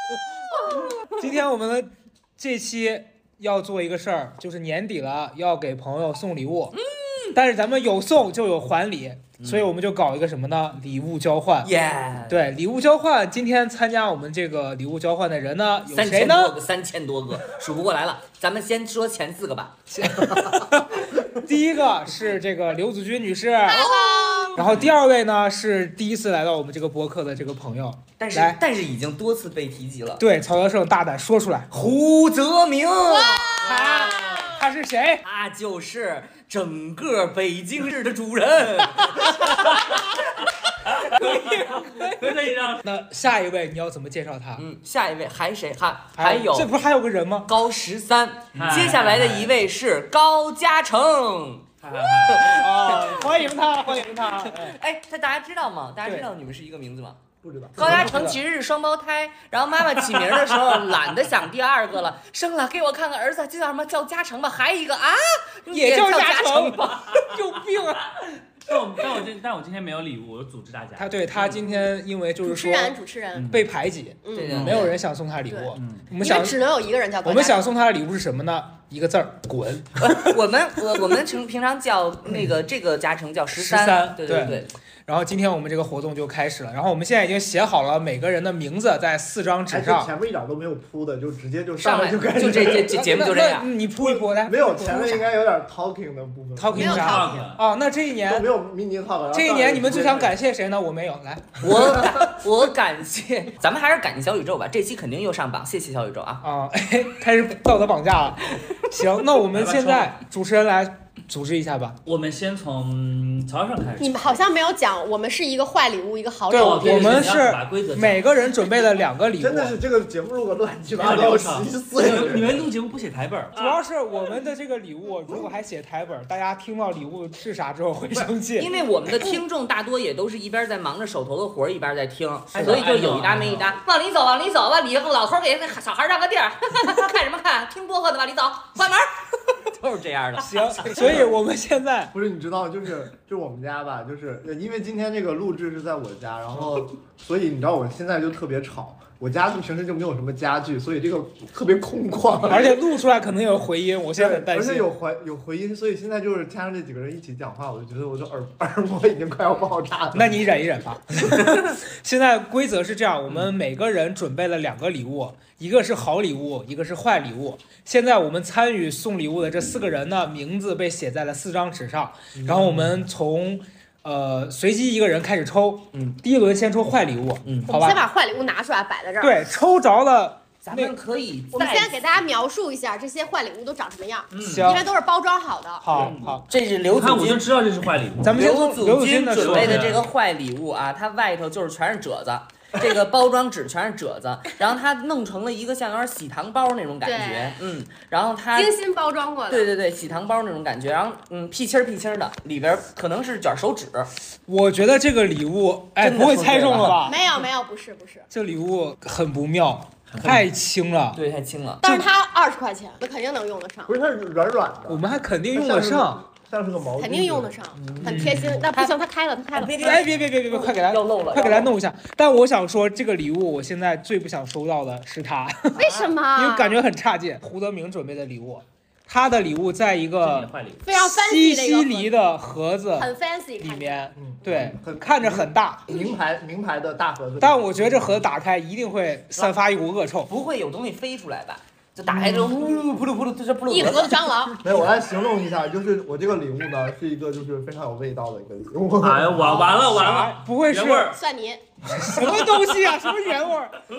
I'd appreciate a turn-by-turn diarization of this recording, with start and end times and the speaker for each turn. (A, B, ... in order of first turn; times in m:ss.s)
0:00.5-0:00.8 A
0:01.1-0:06.7 B
0:06.7-0:07.4 A
0:07.3-0:11.7 B
0:09.4-0:09.7 A
0:11.6-0:12.5 A
0:12.3-0:16.6 B
0:15.9-0:19.8 A
0:19.9-0:23.9 B
0:23.7-0:24.7 C
0:23.7-0:24.8 A
0:24.6-0:28.6 B
0:28.2-0:30.2 A
0:30.2-0:31.9 B
0:31.7-0:34.0 A
0:33.1-0:34.4 C
0:33.6-0:35.2 B
0:33.9-0:34.4 D
0:35.2-0:39.8 A
0:39.2-0:39.6 B
0:40.9-0:42.9 D
0:41.0-0:44.6 B
0:41.0-0:41.3 A
0:44.6-0:46.7 A
0:46.2-0:47.5 B
0:47.5-0:51.7 A
0:48.5-0:49.6 D
0:51.8-0:52.6 D
0:52.2-0:57.2 A
0:52.4-0:54.8 B
0:56.0-0:56.3 B
0:57.4-0:58.1 E
0:57.8-1:07.2 A
0:57.8-0:58.4 B
1:00.1-1:01.0 D
1:05.7-1:08.0 B
1:08.6-1:11.1 D
1:11.0-1:13.0 B
1:12.4-1:13.6 C
1:13.3-1:13.6 D
1:13.5-1:16.6 B
1:14.2-1:14.9 C
1:14.3-1:15.0 A
1:14.5-1:14.8 D
1:15.5-1:17.7 C
1:15.8-1:16.1 D
1:17.2-1:20.4 B
1:20.0-1:24.7 A
1:23.6-1:24.1 D
1:23.9-1:30.1 B
1:29.7-1:33.0 E
1:31.8-1:33.7 A
1:32.9-1:35.2 B
1:34.0-1:37.0 E
1:36.6-1:38.5 B
1:36.7-1:37.5 C
1:36.8-1:37.6 D
1:38.3-1:40.4 E
1:39.3-1:42.1 B
1:41.6-1:46.4 A
1:41.8-1:42.2 E
1:46.4-1:52.0 B
1:49.5-1:50.1 D
1:52.0-1:54.4 D
1:54.0-1:57.3 C
1:56.5-1:58.3 D
1:56.5-1:59.8 B
1:59.4-2:02.7 E
2:01.0-2:03.8 D
2:03.6-2:08.7 B
2:08.1-2:21.2 A
2:12.6-2:13.7 D
2:20.4-2:22.1 B
2:22.1-2:32.8 E
2:32.5-2:34.9 B
2:34.2-2:40.4 E
2:40.1-2:58.0 B
2:52.4-2:52.8 A
2:57.7-2:59.5 C
2:59.2-3:01.0 B
3:00.6-3:02.0 A
3:01.6-3:05.9 C
3:04.3-3:04.8 D
3:04.4-3:04.9 B
3:05.8-3:06.5 B
3:05.9-3:06.3 D
3:06.4-3:07.4 A
3:06.9-3:08.3 D
3:08.2-3:09.9 B
3:08.3-3:18.7 A
3:09.3-3:10.0 D
3:17.0-3:17.6 C
3:18.6-3:19.7 C
3:19.5-3:24.1 A
3:24.5-3:27.3 B
3:26.0-3:27.0 A
3:27.0-3:28.3 C
3:28.3-3:31.2 B
3:30.1-3:30.4 D
3:31.1-3:31.8 A
3:31.8-3:33.9 C
3:33.9-3:37.6 E
3:34.9-3:36.2 B
3:37.0-3:40.0 C
3:37.8-3:39.0 A
3:38.0-3:38.6 B
3:39.5-3:41.8 A
3:39.8-3:55.9 B
3:45.8-3:46.8 C
3:50.2-3:50.8 D
3:50.8-3:52.1 C
3:53.0-3:54.1 C
3:54.2-3:58.2 E
3:57.4-4:00.3 B
4:00.3-4:04.4 A
4:02.3-4:02.8 E
4:03.7-4:04.6 C
4:04.6-4:09.7 E
4:09.0-4:11.2 D
4:09.6-4:11.1 B
4:11.1-4:11.6 C
4:11.9-4:13.8 B
4:11.9-4:12.5 D